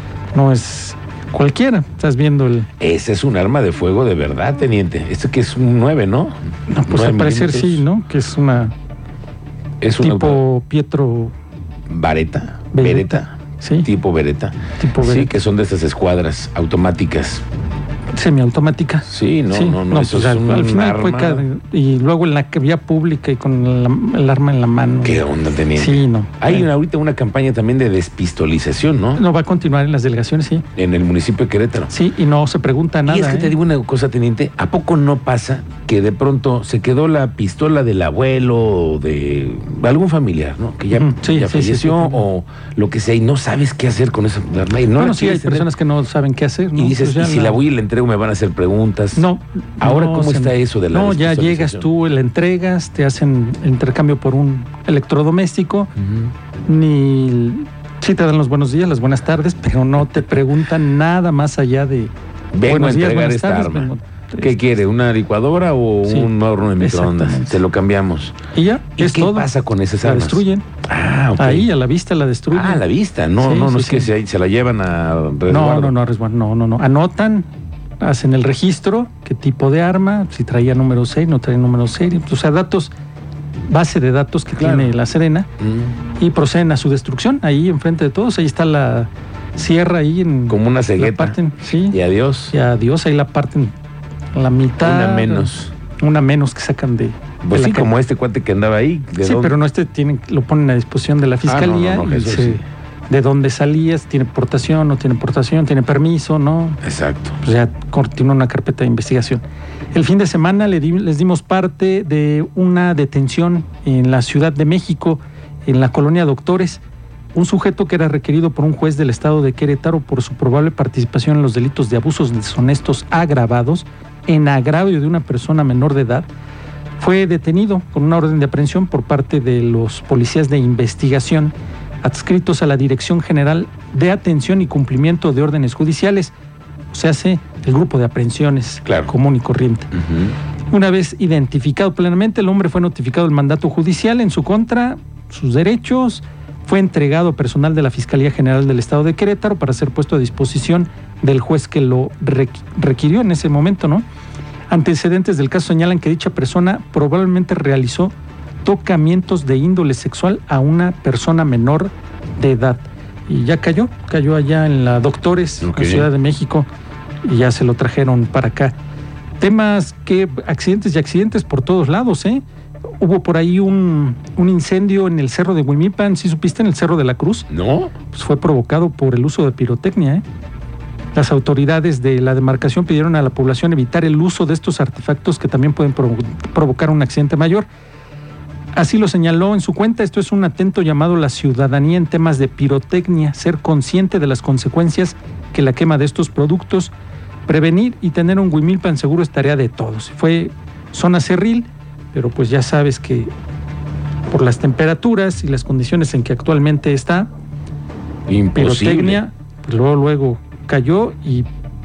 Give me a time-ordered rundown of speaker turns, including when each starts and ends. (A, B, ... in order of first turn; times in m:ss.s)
0:00.3-0:02.7 A
0:02.8-0:06.4 B
0:06.7-0:08.8 A
0:06.9-0:07.9 B
0:09.8-0:10.4 B
0:10.0-0:11.3 A
0:11.9-0:17.4 B
0:12.7-0:13.9 A
0:14.8-0:15.3 A
0:18.1-0:25.2 A
0:19.1-0:21.5 B
0:25.0-0:29.2 B
0:25.8-0:26.6 A
0:29.2-0:30.6 A
0:30.8-0:31.9 B
0:31.9-0:33.6 A
0:33.1-0:45.7 B
0:40.9-0:42.2 A
0:44.9-0:47.6 A
0:46.7-0:49.3 B
0:49.2-0:55.9 A
0:49.8-0:51.9 B
0:56.0-0:56.3 B
0:56.7-1:02.1 A
1:02.5-1:08.4 B
1:02.6-1:04.6 A
1:06.1-1:07.6 A
1:08.5-1:10.7 A
1:09.0-1:11.7 B
1:11.4-1:12.9 A
1:12.5-1:16.0 B
1:13.4-1:14.1 A
1:15.5-1:17.5 A
1:18.0-1:22.9 A
1:23.7-1:25.5 A
1:24.6-1:25.0 B
1:25.6-1:26.0 B
1:26.2-1:32.0 A
1:30.5-1:32.6 B
1:32.5-1:33.7 A
1:34.4-1:37.9 A
1:34.8-1:35.7 B
1:37.4-1:39.6 B
1:39.2-1:46.8 A
1:41.4-1:42.6 B
1:46.8-1:47.4 B
1:47.4-1:56.8 A
1:57.4-2:06.3 A
2:07.0-2:16.3 A
2:16.9-2:19.9 A
2:18.8-2:19.1 B
2:20.0-2:20.3 B
2:20.7-2:34.0 A
2:34.7-2:46.7 A
2:45.6-2:46.1 B
2:47.2-2:48.8 A
2:49.4-2:52.4 A
2:53.0-2:57.5 A
2:57.5-2:57.9 B
2:58.1-3:00.2 A
3:01.2-3:07.7 A
3:08.7-3:16.9 A
3:17.5-3:23.3 A
3:24.3-3:27.3 A
3:28.3-3:29.2 B
3:28.6-3:31.5 A